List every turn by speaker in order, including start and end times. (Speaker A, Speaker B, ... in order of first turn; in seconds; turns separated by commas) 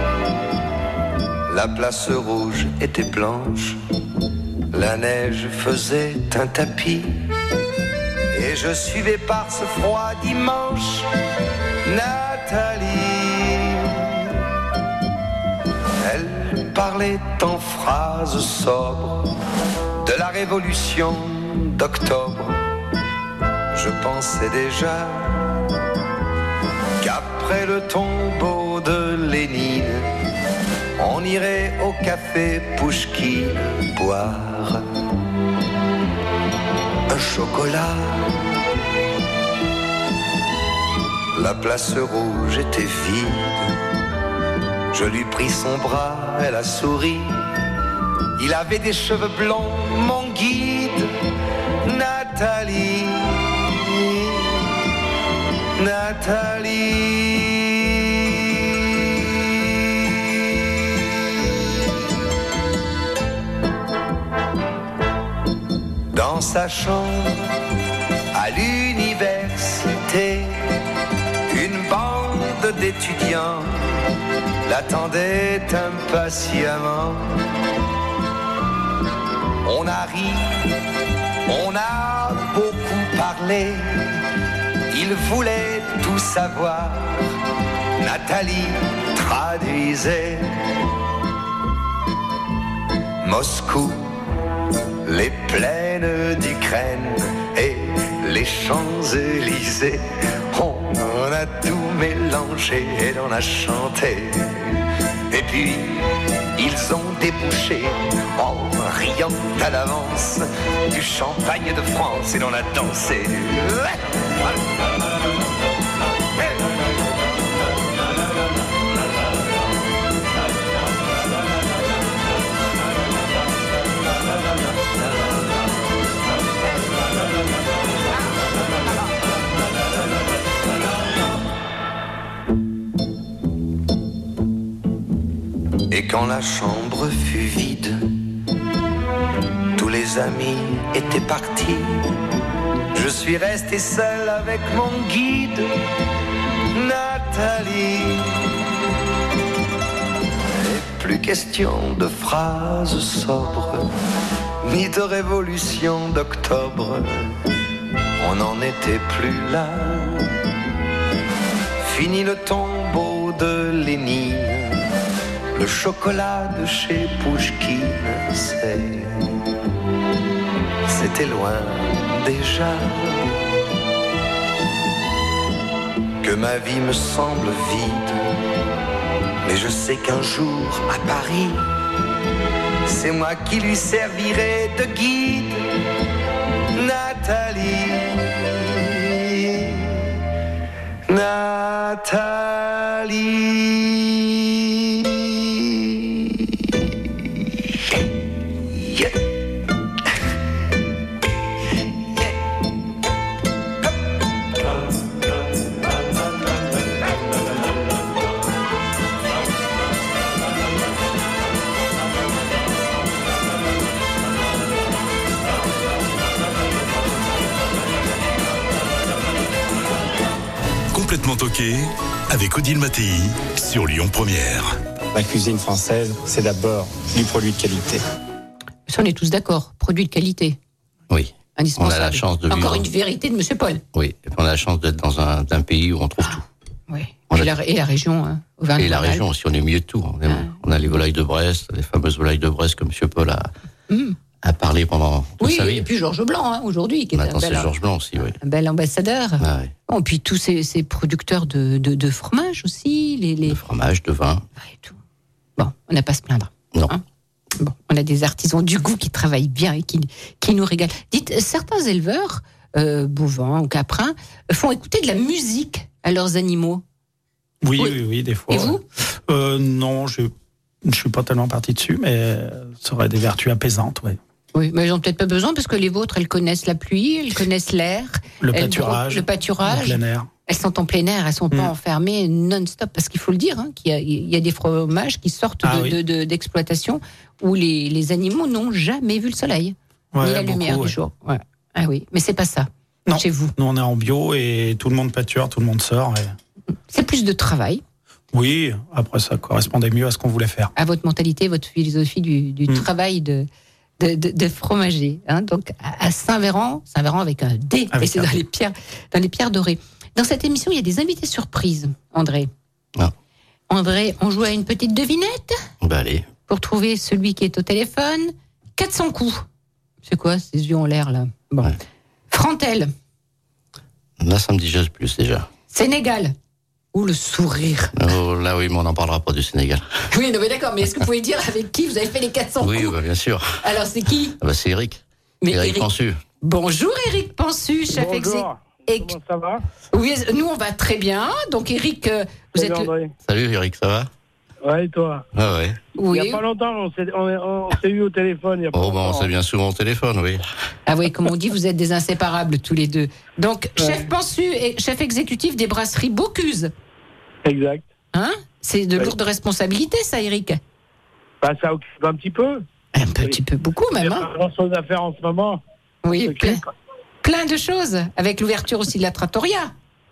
Speaker A: 1.5-3.8, Speaker A: 4.7-7.3, Speaker A: 8.3-11.1, Speaker A: 11.8-14.4, Speaker A: 16.0-19.3, Speaker A: 20.0-22.6, Speaker A: 23.7-25.6, Speaker A: 27.0-30.1, Speaker A: 31.0-34.8, Speaker A: 37.1-38.4, Speaker A: 41.4-43.8, Speaker A: 44.9-47.5, Speaker A: 48.4-51.1, Speaker A: 51.8-54.7, Speaker A: 55.8-61.8, Speaker A: 66.1-67.5, Speaker A: 68.3-70.7, Speaker A: 71.5-74.1, Speaker A: 74.7-77.4, Speaker A: 79.6-80.7, Speaker A: 81.5-84.1, Speaker A: 84.9-87.3, Speaker A: 88.0-90.5, Speaker A: 93.2-94.1, Speaker A: 95.0-114.1, Speaker A: 135.9-138.1, Speaker A: 139.8-142.1, Speaker A: 142.9-145.7, Speaker A: 146.7-148.5, Speaker A: 150.5-153.9, Speaker A: 154.6-157.4, Speaker A: 158.2-160.3, Speaker A: 161.8-164.8, Speaker A: 165.5-169.4, Speaker A: 170.9-173.4, Speaker A: 176.2-178.2, Speaker A: 179.4-181.7, Speaker A: 182.9-185.6, Speaker A: 186.8-190.2, Speaker A: 191.1-196.6, Speaker A: 198.7-199.3, Speaker B: 220.9-224.8, Speaker C: 225.1-228.0, Speaker D: 228.9-230.6, Speaker E: 231.1-232.9, Speaker D: 231.6-233.8, Speaker E: 233.9-236.4, Speaker D: 236.9-239.2, Speaker E: 238.8-243.5, Speaker D: 240.3-240.5, Speaker D: 243.9-244.2, Speaker E: 244.4-245.9, Speaker D: 245.4-247.7, Speaker E: 247.1-248.4, Speaker D: 248.4-253.6, Speaker E: 249.4-249.7, Speaker E: 253.5-254.4, Speaker D: 254.7-254.9, Speaker D: 255.6-257.0, Speaker D: 257.6-266.8, Speaker F: 267.6-270.3, Speaker D: 267.8-268.8, Speaker F: 270.8-274.2, Speaker D: 274.5-293.5, Speaker F: 278.4-280.3, Speaker F: 285.6-286.0, Speaker F: 290.1-291.0, Speaker F: 293.1-296.4, Speaker D: 296.9-297.8, Speaker F: 298.3-300.7, Speaker D: 300.8-303.5, Speaker D: 304.0-312.5, Speaker F: 307.9-308.3, Speaker D: 313.7-315.6, Speaker E: 315.8-316.3, Speaker D: 316.5-319.4, Speaker D: 320.1-321.8, Speaker D: 322.3-322.9, Speaker E: 324.2-325.5, Speaker D: 325.7-326.4, Speaker D: 326.9-328.0, Speaker E: 328.0-330.0, Speaker D: 330.1-333.0, Speaker E: 332.6-333.6, Speaker D: 333.6-334.4, Speaker E: 334.4-336.2, Speaker D: 335.4-335.9, Speaker D: 336.4-339.1, Speaker G: 337.9-339.6, Speaker D: 339.9-342.9, Speaker G: 342.6-343.1, Speaker E: 343.2-344.1, Speaker G: 344.6-345.2, Speaker E: 345.3-345.8, Speaker D: 346.0-346.4, Speaker G: 346.1-349.3, Speaker E: 348.7-350.4, Speaker D: 350.9-356.7, Speaker G: 353.8-354.1, Speaker G: 357.4-357.9, Speaker D: 358.1-360.6, Speaker G: 361.4-362.6, Speaker D: 362.9-364.3, Speaker G: 363.9-365.6, Speaker D: 366.0-366.6, Speaker G: 366.2-366.7, Speaker D: 367.2-369.7